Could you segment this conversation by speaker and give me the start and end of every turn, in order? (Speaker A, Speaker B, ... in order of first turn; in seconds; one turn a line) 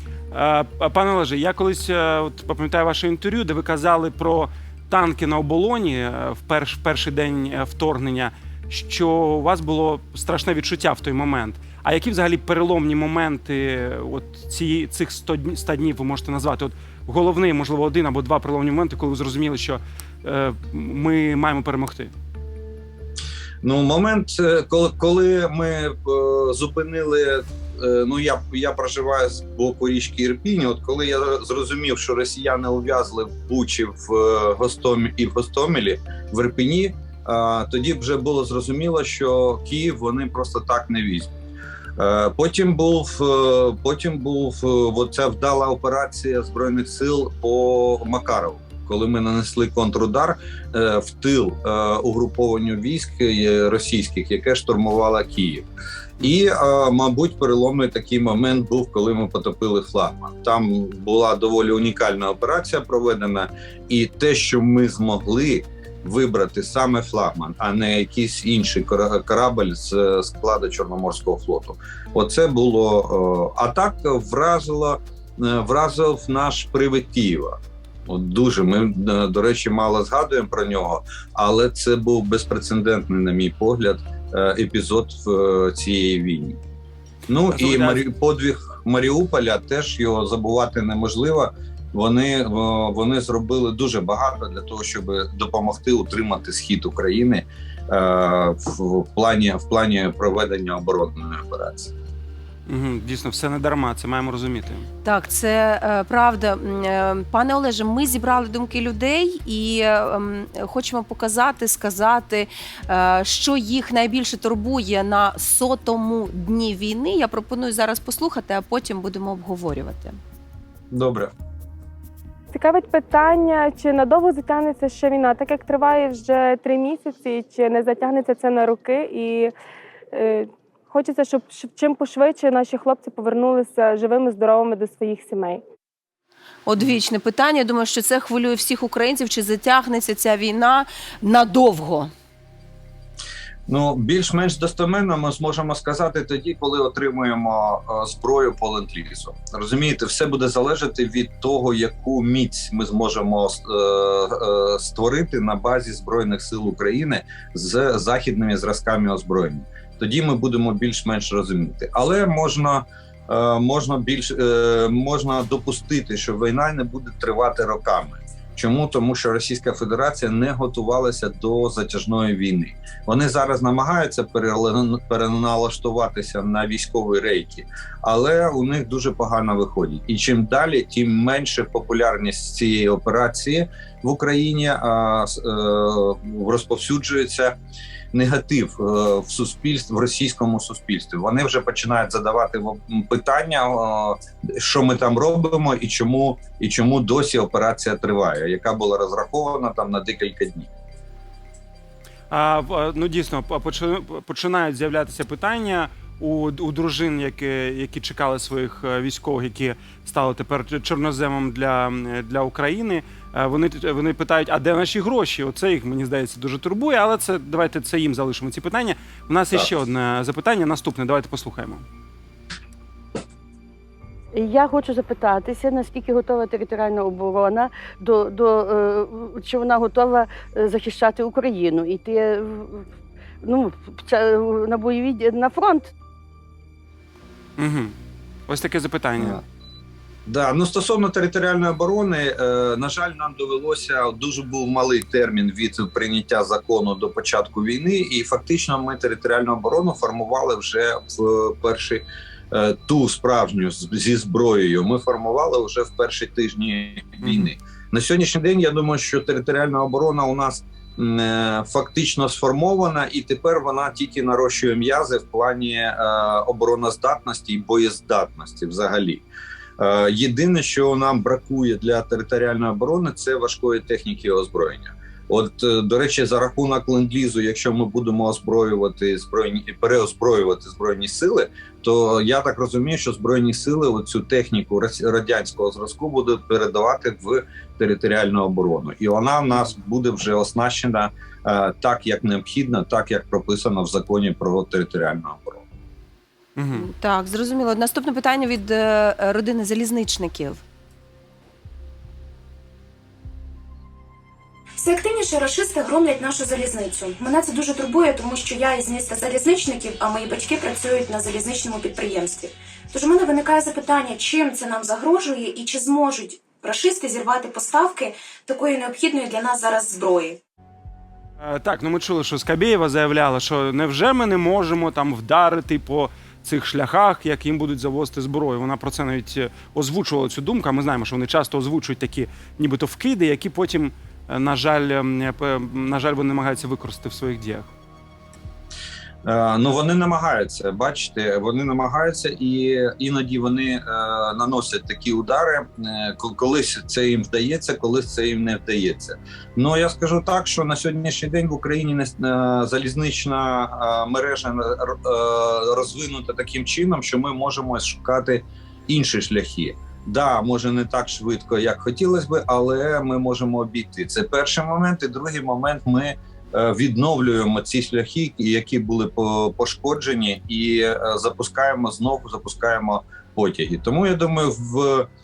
Speaker A: 0.3-22.1
Speaker B: 23.6-41.3
Speaker B: 42.0-55.7
Speaker B: 56.2-86.6
Speaker B: 87.3-101.9
Speaker A: 87.5-88.0
Speaker A: 102.7-104.9
Speaker C: 105.0-120.2
Speaker B: 120.9-121.3
Speaker D: 122.5-129.5
Speaker D: 130.1-135.6
Speaker C: 136.7-142.1
Speaker B: 143.7-187.6
Speaker B: 188.1-200.7
Speaker A: 202.3-221.8
Speaker E: 224.3-232.8
Speaker E: 233.4-235.9
Speaker A: 237.6-237.9
Speaker A: 238.5-239.4
Speaker B: 240.3-269.3
Speaker B: 269.8-295.6
Speaker A: 296.6-296.9
Speaker C: 296.7-300.6
Speaker F: 304.8-320.4
Speaker A: 321.4-337.7
Speaker B: 339.2-375.1